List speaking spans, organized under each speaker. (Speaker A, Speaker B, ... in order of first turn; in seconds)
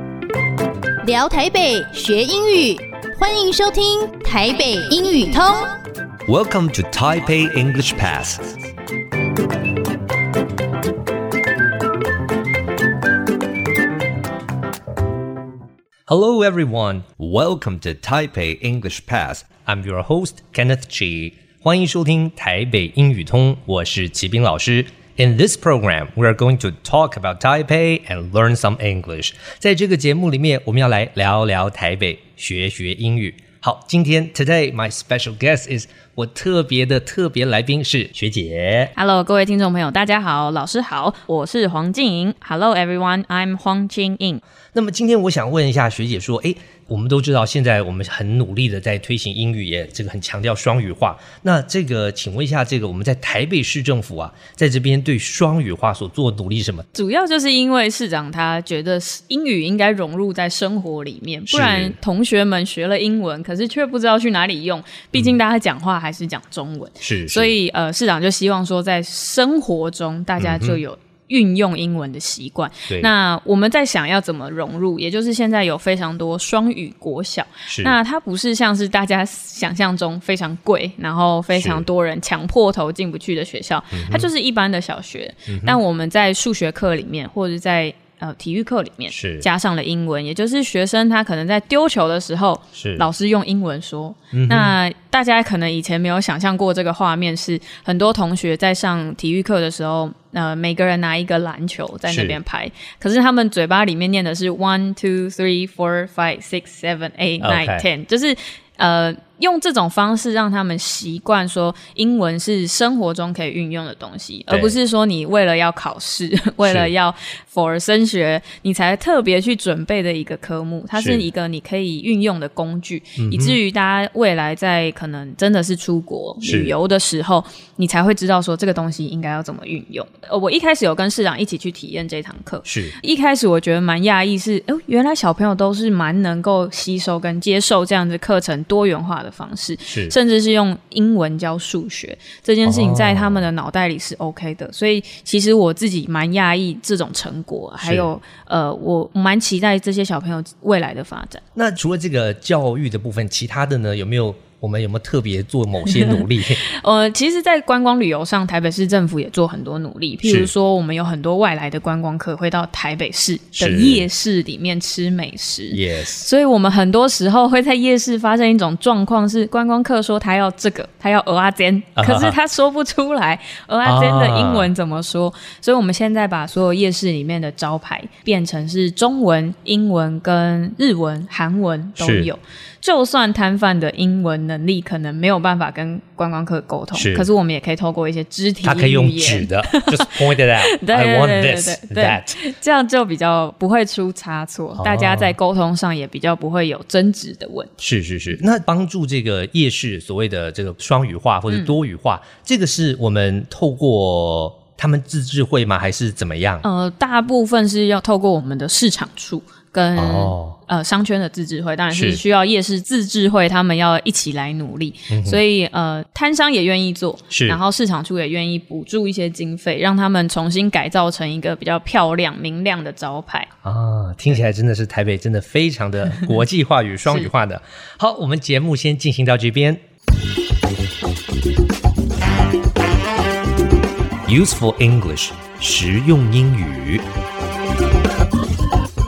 Speaker A: 1.0-5.7
Speaker B: 6.3-8.5, 16.1-38.9, 44.7-56.9, 61.5-62.0, 67.0-67.5, 70.4-70.8, 77.7-78.0, 81.5-81.8, 83.9-84.3, 85.5-85.8, 89.1-89.5, 92.8-93.1, 94.3-94.8, 102.1-102.4, 107.4-107.9, 114.5-114.8, 116.6-116.9, 121.0-121.3, 123.2-123.6, 126.4-126.7, 132.7-132.9, 139.9-140.1, 142.7-143.5, 147.8-148.1, 151.6-156.6, 160.2-160.5, 163.6-164.1, 165.7-166.3, 172.0-172.4, 173.8-174.7, 182.0-182.3, 186.9-187.3, 188.6-192.4, 194.8-195.4, 197.8-206.6, 210.0-210.6, 211.9-212.2, 215.1-215.4, 217.3-217.6, 223.6-229.8, 234.3-237.0
Speaker C: 39.0-44.4, 56.9-151.4, 155.9-156.2, 156.7-197.7, 201.5-201.8, 206.6-223.5